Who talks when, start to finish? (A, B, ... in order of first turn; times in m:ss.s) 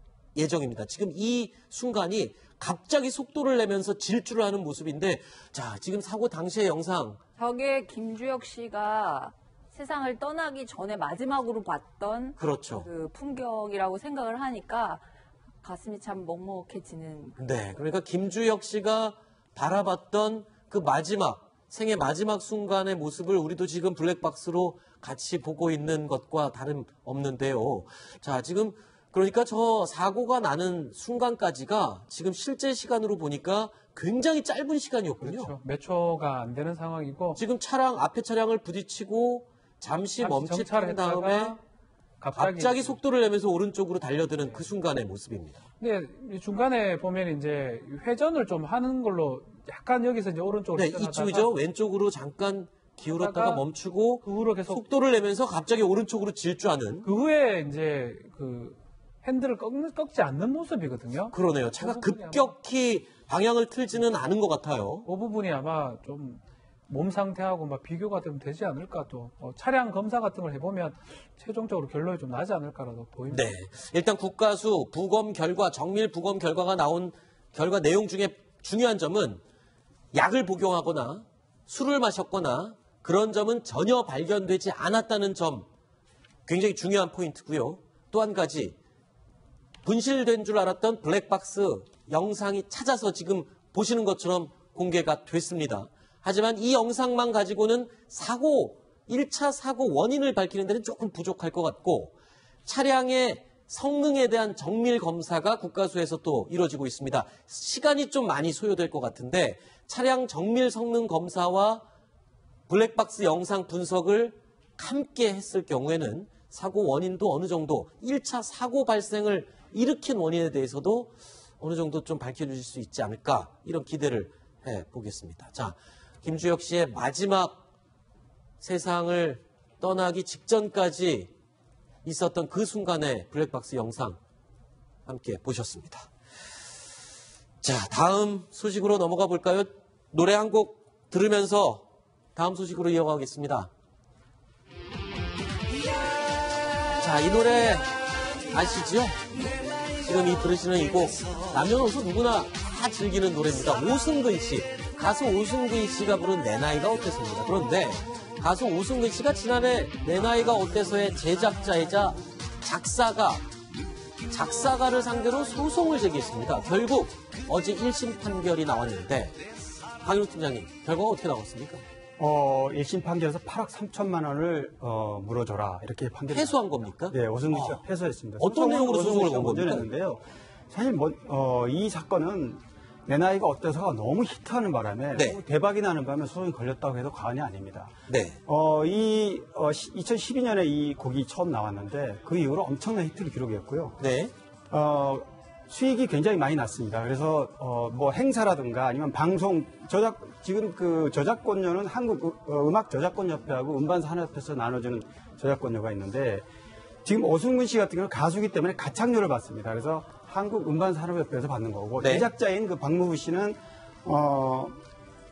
0:00.4-0:07.2 A
0:07.4-0:15.0 B
0:12.4-0:12.9 A
0:15.6-0:17.3 B
0:17.4-0:35.5 A
0:35.2-0:37.4 C
0:37.4-0:41.6 A
0:40.2-0:41.6 C
0:42.2-0:43.0 C
0:42.3-0:45.6 A
0:45.8-0:51.5 C
0:50.8-0:57.1 A
0:53.1-0:53.6 C
0:54.2-0:54.8 C
0:57.0-1:02.5 C
1:01.3-1:05.1 A
1:05.0-1:13.5 C
1:13.3-1:19.4 A
1:20.1-1:25.7 A
1:26.5-1:28.8 A
1:29.8-1:42.1 A
1:42.6-1:51.8 A
1:52.7-2:07.6 A
2:08.6-2:11.3 A
2:12.0-2:14.2 A
2:15.0-2:16.1 A
2:17.6-2:23.7 A
2:27.0-2:28.0 A
2:28.5-2:29.2 A
2:30.0-2:43.4 A
2:44.3-2:49.4 A
2:50.0-2:51.8 A
2:52.2-3:07.9 D
2:56.3-2:57.8 A
2:58.4-2:59.9 A
3:08.1-3:08.4 A
3:08.4-3:14.0 D
3:14.0-3:14.3 A
3:14.7-3:26.4 D
3:27.0-3:34.8 D
3:32.0-3:32.3 A